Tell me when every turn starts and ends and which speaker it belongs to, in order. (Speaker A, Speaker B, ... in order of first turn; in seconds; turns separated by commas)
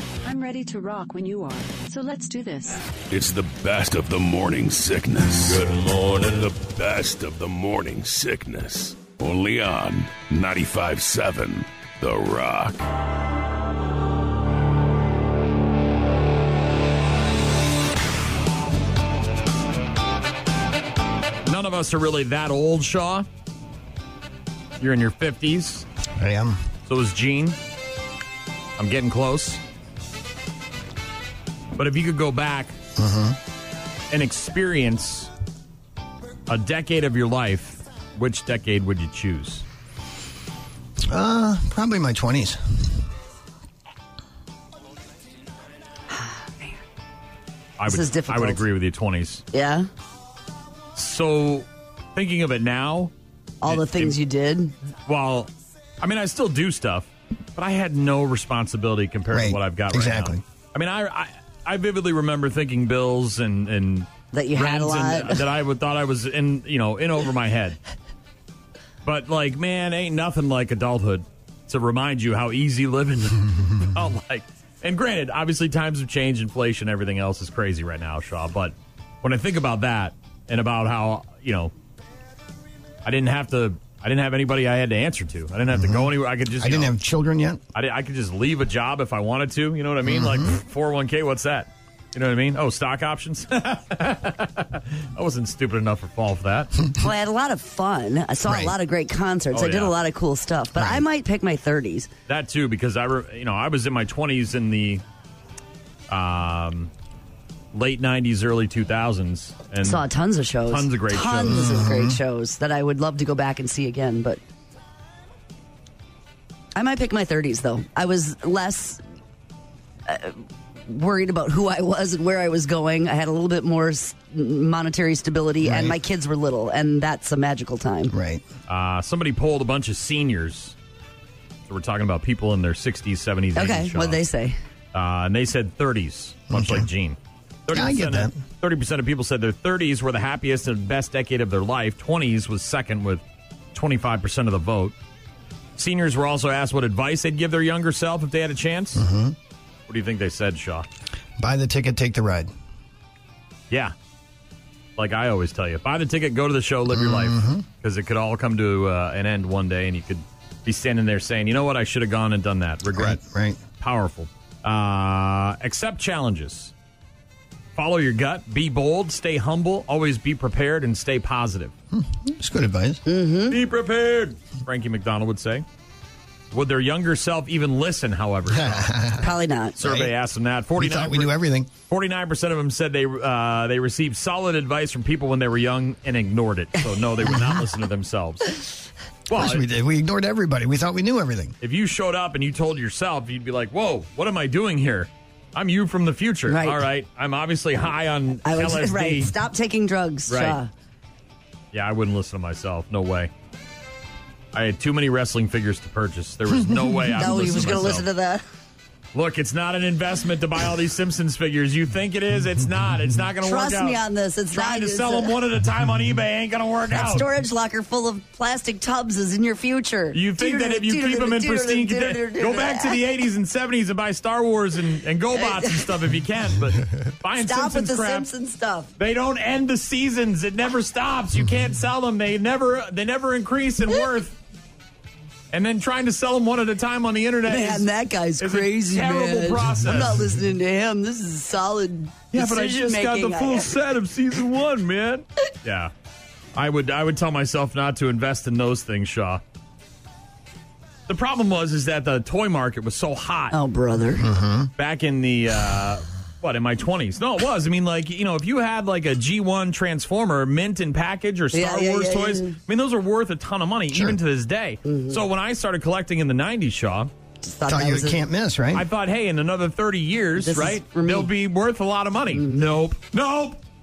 Speaker A: 0.2-2.8, Speaker B: 3.1-12.8, Speaker C: 21.5-23.3, Speaker C: 24.8-25.9, Speaker D: 26.2-26.6, Speaker C: 26.9-27.6, Speaker C: 28.8-29.6, Speaker C: 31.8-32.8, Speaker D: 33.0-33.4, Speaker C: 34.1-35.3, Speaker C: 36.5-39.6, Speaker D: 41.1-42.9, Speaker E: 46.1-46.8, Speaker C: 47.8-49.4, Speaker E: 47.9-48.6, Speaker E: 49.5-49.9, Speaker C: 51.0-54.2, Speaker E: 53.6-54.7, Speaker C: 55.1-67.8, Speaker D: 59.3-60.4, Speaker E: 64.3-65.4, Speaker C: 69.0-81.7, Speaker C: 83.0-87.0, Speaker D: 85.7-87.6, Speaker C: 87.7-96.7, Speaker D: 90.0-90.5, Speaker E: 97.0-102.1, Speaker D: 98.5-98.7, Speaker C: 99.5-100.0, Speaker D: 100.8-101.0, Speaker C: 102.3-105.0, Speaker C: 106.1-106.9, Speaker C: 107.7-110.0, Speaker E: 109.8-114.4, Speaker C: 110.7-111.9, Speaker D: 111.5-112.2, Speaker E: 116.8-119.0, Speaker E: 120.1-128.1, Speaker D: 125.6-126.0, Speaker D: 128.1-128.4, Speaker C: 128.7-130.8, Speaker C: 131.7-134.2, Speaker E: 133.6-134.6, Speaker C: 134.9-144.9, Speaker D: 136.5-136.9, Speaker D: 137.7-138.4, Speaker C: 145.8-149.0, Speaker D: 149.0-149.4, Speaker C: 149.9-150.9, Speaker D: 151.4-152.5, Speaker C: 155.0-163.2, Speaker D: 156.9-157.7, Speaker D: 162.9-163.6, Speaker C: 163.8-166.7, Speaker C: 167.8-171.7, Speaker D: 171.9-173.0, Speaker E: 173.1-173.6, Speaker C: 173.5-175.7, Speaker C: 176.5-179.0, Speaker D: 178.5-179.3, Speaker E: 179.2-179.8, Speaker C: 179.8-181.3, Speaker D: 179.8-180.1, Speaker D: 180.8-181.7, Speaker C: 181.9-188.7, Speaker C: 189.3-189.7, Speaker D: 189.3-191.6, Speaker C: 191.6-199.3, Speaker E: 196.5-196.8, Speaker E: 198.4-200.7, Speaker C: 200.3-200.6, Speaker C: 201.7-203.3, Speaker C: 204.5-208.1, Speaker D: 206.9-207.2, Speaker E: 207.2-208.4, Speaker C: 209.1-217.3, Speaker E: 213.4-215.4, Speaker E: 216.9-223.0, Speaker C: 220.1-228.3, Speaker E: 225.3-225.9, Speaker E: 227.4-228.9, Speaker C: 229.0-234.4, Speaker C: 235.5-237.9, Speaker E: 237.5-243.7, Speaker C: 238.4-240.3, Speaker C: 242.3-245.9, Speaker C: 246.6-249.4, Speaker C: 251.1-253.6, Speaker E: 253.5-254.2, Speaker D: 254.2-254.7, Speaker C: 254.8-267.1, Speaker E: 261.5-262.6, Speaker D: 263.9-264.2, Speaker E: 264.9-265.2, Speaker E: 267.4-268.2, Speaker D: 267.7-268.9, Speaker C: 268.7-273.6, Speaker E: 270.4-271.3, Speaker E: 272.3-272.6